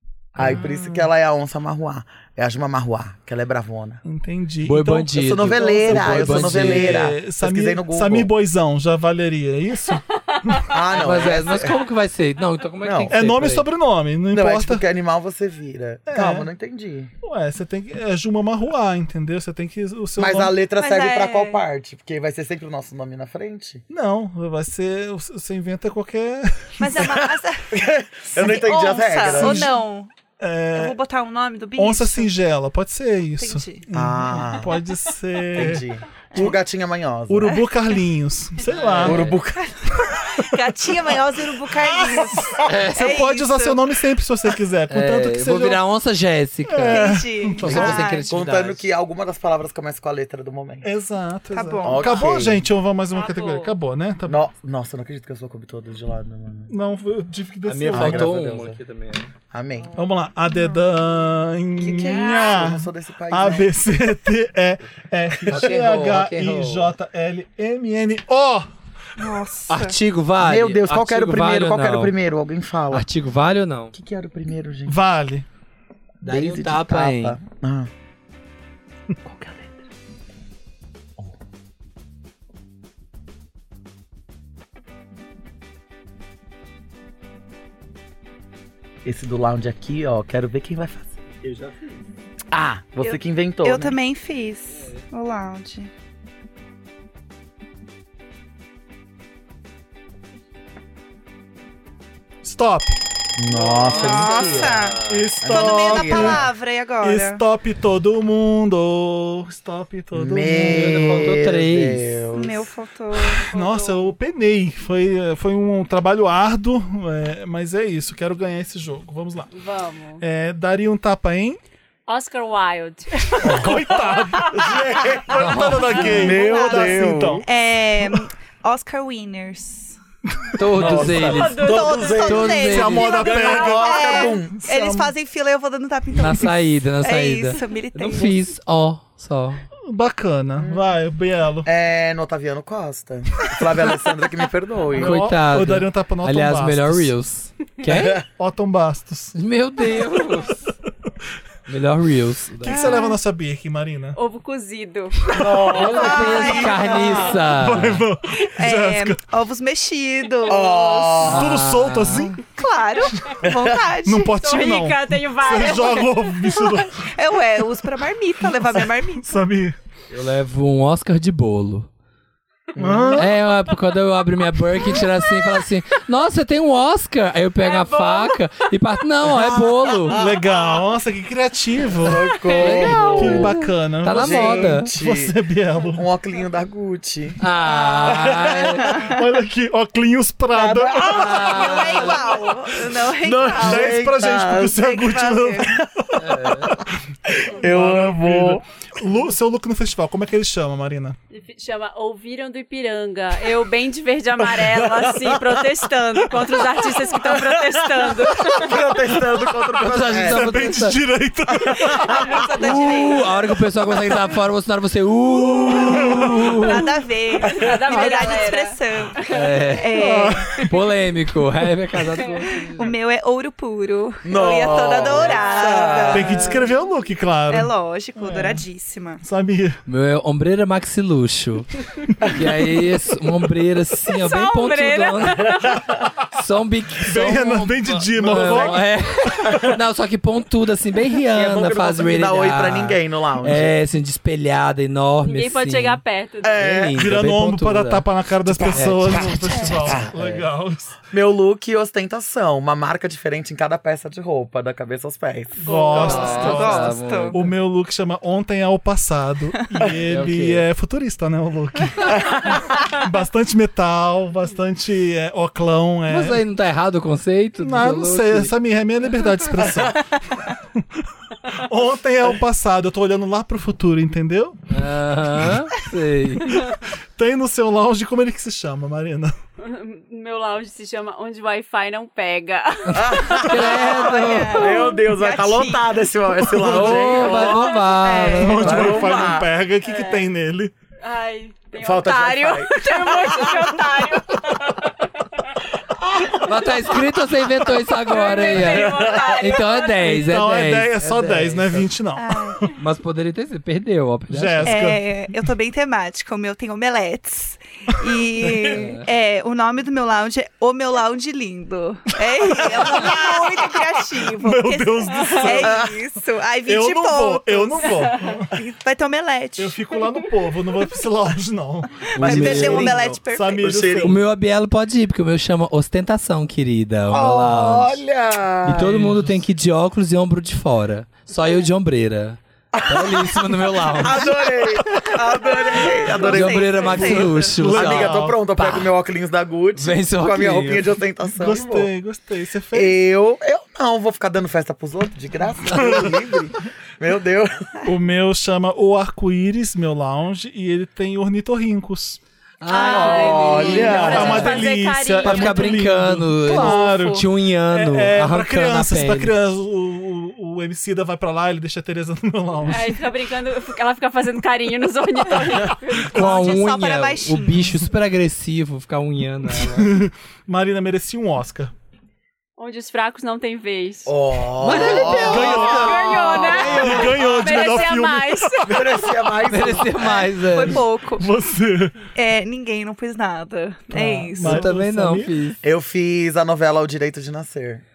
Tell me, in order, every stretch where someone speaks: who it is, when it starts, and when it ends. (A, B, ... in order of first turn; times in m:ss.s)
0:00.4-0:04.0 A
0:00.4-0:01.1 B
0:04.0-0:10.6 B
0:04.6-0:07.1 C
0:05.1-0:08.3 A
0:10.1-0:11.8 D
0:10.7-0:11.8 A
0:10.9-0:13.6 C
0:12.8-0:13.1 A
0:13.1-0:14.8 B
0:14.3-0:17.1 A
0:16.1-0:16.5 B
0:17.2-0:20.6 B
0:20.2-0:23.8 A
0:20.8-0:21.6 E
0:23.9-0:27.3 B
0:26.8-0:27.7 E
0:27.7-0:29.7 A
0:28.4-0:30.1 E
0:29.2-0:29.7 B
0:30.4-0:31.0 B
0:30.7-0:32.3 E
0:31.8-0:36.6 B
0:33.4-0:33.8 E
0:33.9-0:34.8 A
0:35.5-0:37.5 A
0:37.3-0:39.2 B
0:38.6-0:39.4 C
0:39.0-0:39.6 A
0:39.6-0:43.8 E
0:41.9-0:45.8 B
0:42.6-0:43.2 C
0:44.9-0:48.8 C
0:46.7-0:48.1 B
0:46.9-0:48.3 E
0:47.7-0:50.9 A
0:50.8-0:54.4 B
0:51.5-0:52.3 E
0:51.8-0:52.6 A
0:53.1-0:53.7 D
0:54.3-0:56.7 A
0:56.7-0:58.3 B
0:57.6-0:59.3 C
0:57.9-0:58.8 A
0:59.5-0:59.9 A
0:59.9-1:08.7 B
1:00.5-1:00.8 E
1:01.8-1:03.7 A
1:05.4-1:06.9 C
1:05.5-1:05.7 A
1:09.2-1:10.0 E
1:09.7-1:12.1 C
1:10.4-1:13.0 A
1:12.9-1:13.9 C
1:13.9-1:15.0 A
1:14.9-1:15.4 B
1:16.2-1:17.4 C
1:16.2-1:17.9 A
1:29.0-1:31.2 A
1:31.4-1:31.9 C
1:32.5-1:34.0 A
1:33.0-1:35.9 E
1:42.4-1:42.9 B
1:43.4-1:46.5 A
1:43.5-1:45.2 C
1:43.8-1:47.4 E
1:45.1-1:46.4 B
1:47.0-1:51.3 B
1:50.1-1:52.7 A
1:50.5-1:52.2 C
1:52.3-1:53.4 E
1:53.4-1:54.1 D
1:53.5-1:59.5 B
1:59.5-2:00.2 D
2:00.2-2:01.6 B
2:02.1-2:04.6 D
2:03.3-2:07.4 B
2:03.4-2:03.9 A
2:04.5-2:07.4 A
2:05.3-2:06.2 C
2:05.9-2:10.0 E
2:10.4-2:11.6 B
2:10.6-2:11.6 C
2:10.8-2:14.6 A
2:11.3-2:14.3 D
2:11.6-2:18.4 E
2:12.2-2:13.1 C
2:12.6-2:15.1 B
2:16.1-2:19.6 C
2:19.9-2:21.7 B
2:20.6-2:20.9 A
2:21.6-2:25.2 A
2:24.9-2:27.1 B
2:24.9-2:28.2 C
2:27.9-2:28.2 A
2:28.4-2:29.3 B
2:29.3-2:30.6 C
2:31.7-2:33.0 C
2:32.6-2:34.2 B
2:32.6-2:33.2 E
2:34.1-2:35.2 D
2:35.3-2:37.3 A
2:35.7-2:38.0 C
2:35.7-2:37.4 E
2:37.5-2:39.2 B
2:38.4-2:41.2 E
2:40.4-2:41.6 A
2:40.6-2:41.0 D
2:41.2-2:42.3 C
2:41.2-2:42.4 B
2:42.5-2:44.4 E
2:43.4-2:43.8 A
2:44.0-2:47.1 B
2:44.4-2:46.6 D
2:47.0-2:49.4 E
2:48.4-2:49.8 B
2:50.1-2:51.9 C
2:52.7-2:53.2 A
2:52.8-2:53.4 B
2:53.1-3:00.2 C
2:57.6-2:58.7 D
2:59.2-3:00.4 A
3:00.1-3:02.3 B
3:02.0-3:03.5 A
3:02.4-3:03.2 D
3:02.6-3:04.9 C
3:02.8-3:03.5 E
3:02.9-3:06.1 B
3:04.1-3:05.3 A
3:05.9-3:07.4 A
3:07.4-3:09.1 C
3:07.6-3:09.2 E
3:08.0-3:08.8 A
3:08.6-3:11.3 B
3:10.5-3:12.4 A
3:11.0-3:12.4 C
3:11.2-3:14.1 E
3:13.2-3:14.8 A
3:13.4-3:16.9 B
3:14.7-3:15.7 E
3:15.7-3:16.7 A
3:16.2-3:16.8 C
3:17.2-3:18.6 A
3:17.6-3:21.2 B
3:21.3-3:28.8 D
3:24.5-3:25.6 A
3:27.1-3:30.8 A
3:29.8-3:31.0 C
3:29.8-3:32.3 B
3:31.5-3:32.7 A
3:31.8-3:33.4 E
3:32.6-3:36.9 C
3:35.4-3:36.8 B
3:36.3-3:40.6 E
3:37.4-3:39.8 D
3:37.5-3:38.1 A
3:39.3-3:42.9 C
3:40.0-3:40.7 B
3:42.7-3:46.7 E
3:44.2-3:46.5 A
3:45.1-3:46.0 D
3:46.1-3:48.6 B
3:47.5-3:49.2 E
3:49.2-3:49.8 B
3:49.9-3:51.7 C
3:52.2-3:55.6 C
3:54.2-3:55.9 D
3:55.6-3:56.1 A
3:56.3-4:06.0 C
3:57.0-3:59.6 B
3:58.1-3:59.8 A
4:01.3-4:03.7 A
4:05.2-4:06.6 D
4:06.4-4:07.1 A
4:06.6-4:08.0 C
4:06.9-4:11.0 B
4:08.5-4:10.1 A
4:08.6-4:10.4 C
4:09.5-4:09.8 E
4:11.1-4:16.3 A
4:15.6-4:26.4 B
4:15.6-4:17.4 E
4:15.9-4:16.4 D
4:15.9-4:17.5 C
4:20.1-4:20.6 C
4:22.1-4:22.6 A
4:26.1-4:28.5 C
4:27.6-4:30.0 B
4:29.6-4:29.9 A
4:30.7-4:31.0 B
4:31.5-4:34.6 B
4:34.7-4:36.6 C
4:36.5-4:39.3 B
4:39.6-4:43.7 D
4:42.9-4:44.8 C
4:42.9-4:48.0 A
4:43.8-4:45.9 E
4:46.4-4:47.4 B
4:46.6-4:49.0 C
4:47.6-4:48.9 E
4:48.3-4:50.7 B
4:48.5-4:49.5 A
4:49.8-4:50.3 D
4:51.0-4:55.5 D
4:51.8-4:53.7 A
4:56.4-5:01.9 C
4:58.0-5:00.3 D
4:58.5-4:59.5 A
5:00.0-5:02.7 B
5:02.2-5:02.6 E
5:02.8-5:04.8 C
5:04.3-5:05.4 B
5:04.6-5:19.8 E
5:08.4-5:08.8 B
5:08.7-5:09.0 C
5:12.3-5:15.9 B
5:15.1-5:15.6 D
5:15.5-5:15.9 A
5:16.6-5:18.6 B
5:18.0-5:18.4 D
5:19.6-5:24.2 B
5:22.1-5:23.0 C
5:22.2-5:23.1 A
5:22.2-5:23.8 E
5:23.6-5:24.2 A
5:24.0-5:28.0 C
5:27.1-5:28.9 A
5:28.6-5:34.4 C
5:28.7-5:29.4 B
5:32.7-5:41.9 A
5:34.9-5:37.5 E
5:36.2-5:38.9 C
5:37.0-5:38.4 B
5:39.8-5:41.0 C
5:41.2-5:43.0 B
5:42.7-5:47.8 A
5:45.7-5:46.2 B
5:47.8-5:52.2 B
5:52.6-5:54.6 C
5:52.7-5:55.8 D
5:52.8-5:54.6 A
5:53.0-5:53.9 E
5:54.0-6:03.0 B
5:55.2-5:59.3 C
5:56.6-5:57.1 E
5:56.6-5:57.0 D
6:02.7-6:06.5 D
6:06.0-6:07.9 E
6:06.1-6:09.9 C
6:09.5-6:11.7 B
6:12.6-6:14.2 D
6:14.0-6:16.1 A
6:14.6-6:17.2 C
6:14.7-6:18.8 D
6:14.8-6:19.2 B
6:15.4-6:16.9 E
6:18.6-6:20.2 A
6:19.4-6:20.8 C
6:20.0-6:21.3 E
6:21.2-6:22.0 B
6:22.1-6:24.7 E
6:23.9-6:25.3 B
6:24.4-6:25.6 C
6:25.6-6:27.8 A